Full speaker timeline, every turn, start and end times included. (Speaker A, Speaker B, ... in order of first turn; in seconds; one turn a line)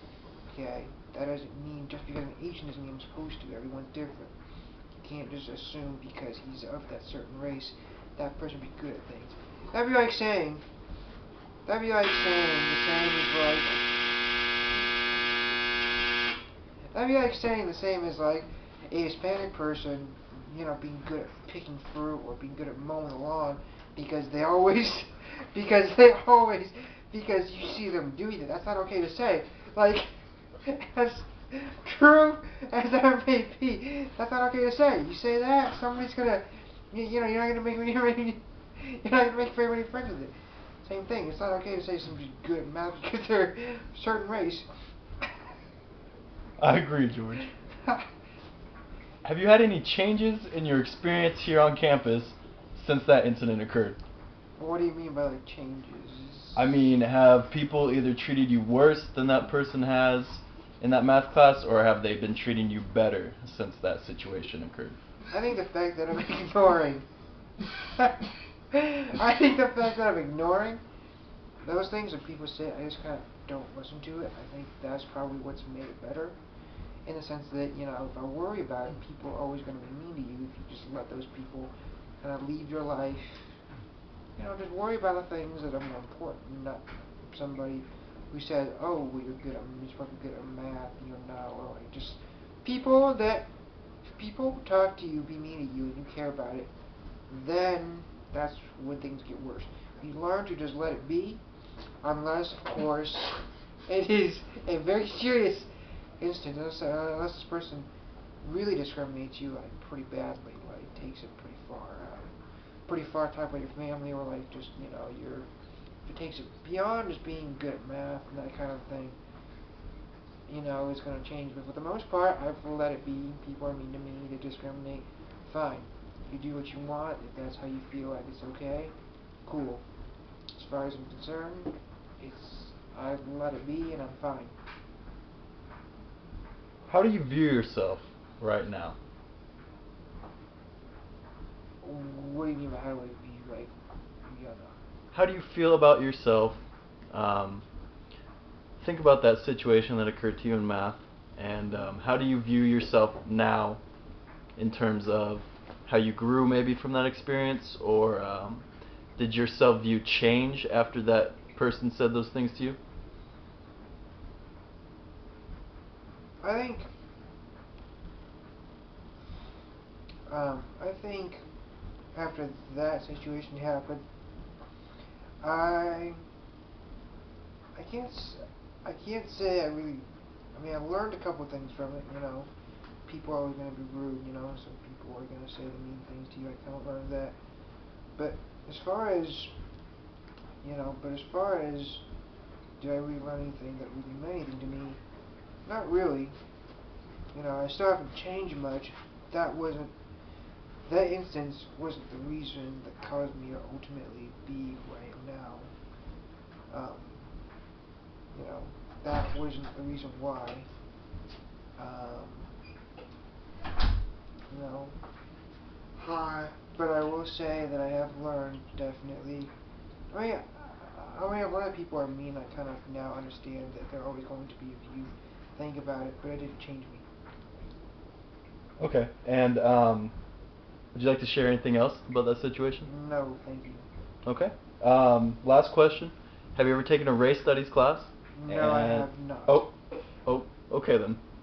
Speaker A: 0.5-4.3
Speaker A: 5.0-10.7
Speaker A: 11.7-14.0
Speaker A: 16.9-40.3
Speaker A: 40.8-44.7
Speaker B: 46.6-47.5
Speaker B: 49.2-54.0
Speaker A: 54.6-56.8
Speaker B: 56.6-65.0
Speaker A: 65.3-67.1
Speaker A: 68.0-70.8
Speaker A: 71.6-76.4
Speaker A: 77.1-83.6
Speaker A: 84.4-93.5
Speaker A: 94.2-96.7
Speaker A: 97.3-101.4
Speaker A: 102.0-105.7
Speaker A: 106.2-107.9
Speaker A: 108.4-112.3
Speaker A: 112.9-115.5
Speaker A: 116.1-119.2
Speaker A: 120.5-128.9
Speaker A: 129.4-129.8
Speaker A: 130.5-134.5
Speaker B: 136.9-139.0
Speaker A: 141.8-143.7
Speaker A: 144.3-144.8
Speaker B: 145.1-146.6
Speaker B: 147.1-147.6
Speaker B: 148.8-153.8
Speaker B: 154.6-158.7
Speaker B: 159.2-162.8
Speaker A: 166.4-166.9
Speaker A: 170.3-171.4
Speaker A: 172.1-174.0
Speaker A: 175.4-176.2
Speaker A: 177.8-182.5
Speaker A: 183.1-187.4
Speaker A: 188.2-189.5
Speaker A: 190.6-192.0
Speaker A: 192.8-195.0
Speaker A: 195.7-196.3
Speaker A: 197.3-199.9
Speaker A: 200.8-205.7
Speaker A: 206.7-207.3
Speaker A: 208.3-210.7
Speaker A: 211.8-212.5
Speaker A: 214.5-215.0
Speaker A: 216.0-219.5
Speaker A: 220.1-227.1
Speaker B: 228.8-230.1
Speaker B: 230.9-232.9
Speaker A: 232.8-233.9
Speaker B: 234.3-239.7
Speaker A: 238.3-239.6
Speaker B: 240.3-241.2